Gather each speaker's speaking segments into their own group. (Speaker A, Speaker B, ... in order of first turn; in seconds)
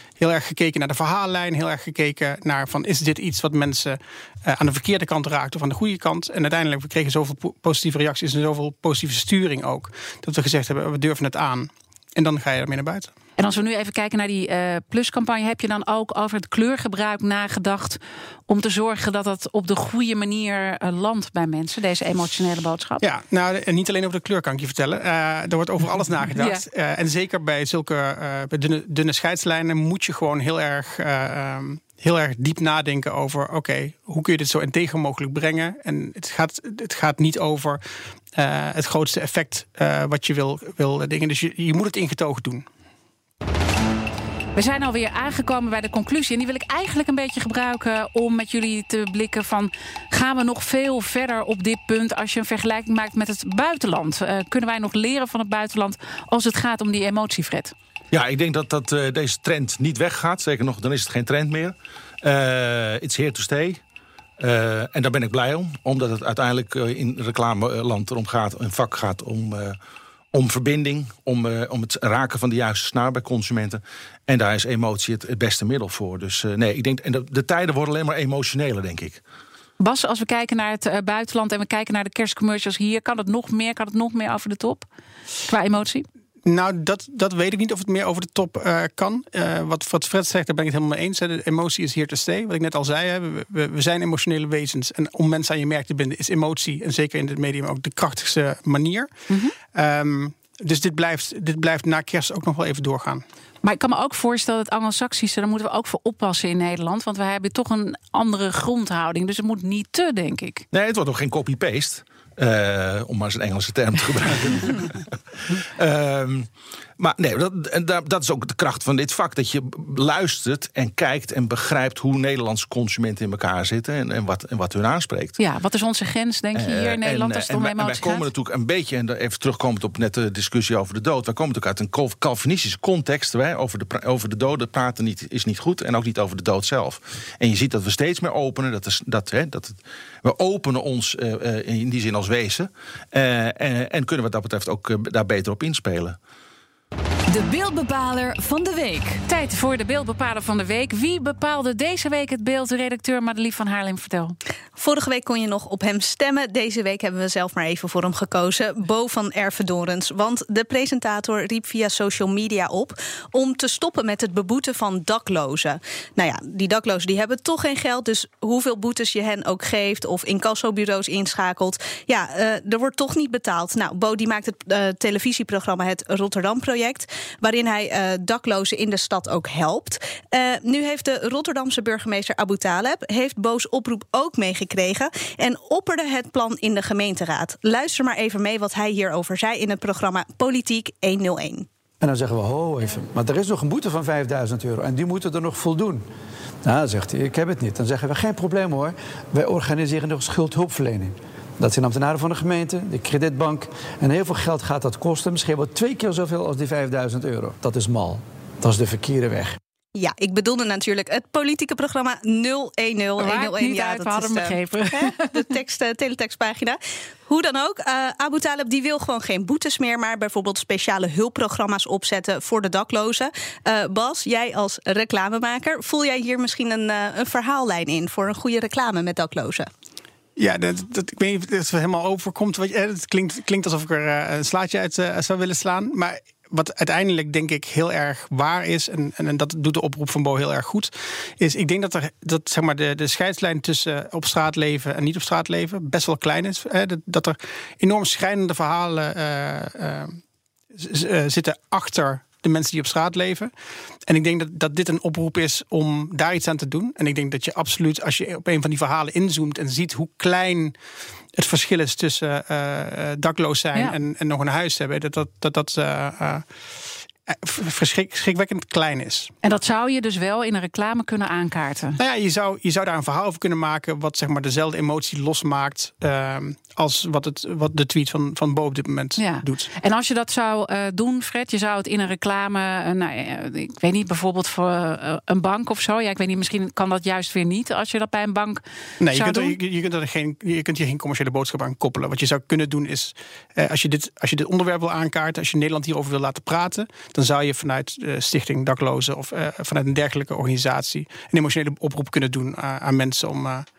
Speaker A: 0.2-13.1, 23.0-37.8, 38.3-42.6, 86.4-99.1, 99.7-103.2, 230.3-250.2, 250.7-253.5, 254.1-260.8, 261.3-266.4, 267.3-269.3, 272.0-279.7, 289.0-303.6
Speaker B: 13.4-23.0, 44.5-57.7, 79.8-84.9, 85.5-86.0, 99.3-99.5, 103.6-110.6, 125.4-128.3, 149.3-154.3, 213.2-215.5, 269.4-272.0, 279.2-289.6
Speaker C: 58.1-63.8, 64.4-69.8, 70.3-79.2, 110.7-125.4, 126.5-146.2
Speaker D: 147.3-149.2
Speaker E: 154.8-191.7, 209.9-229.7
Speaker F: 192.0-196.0, 196.6-209.6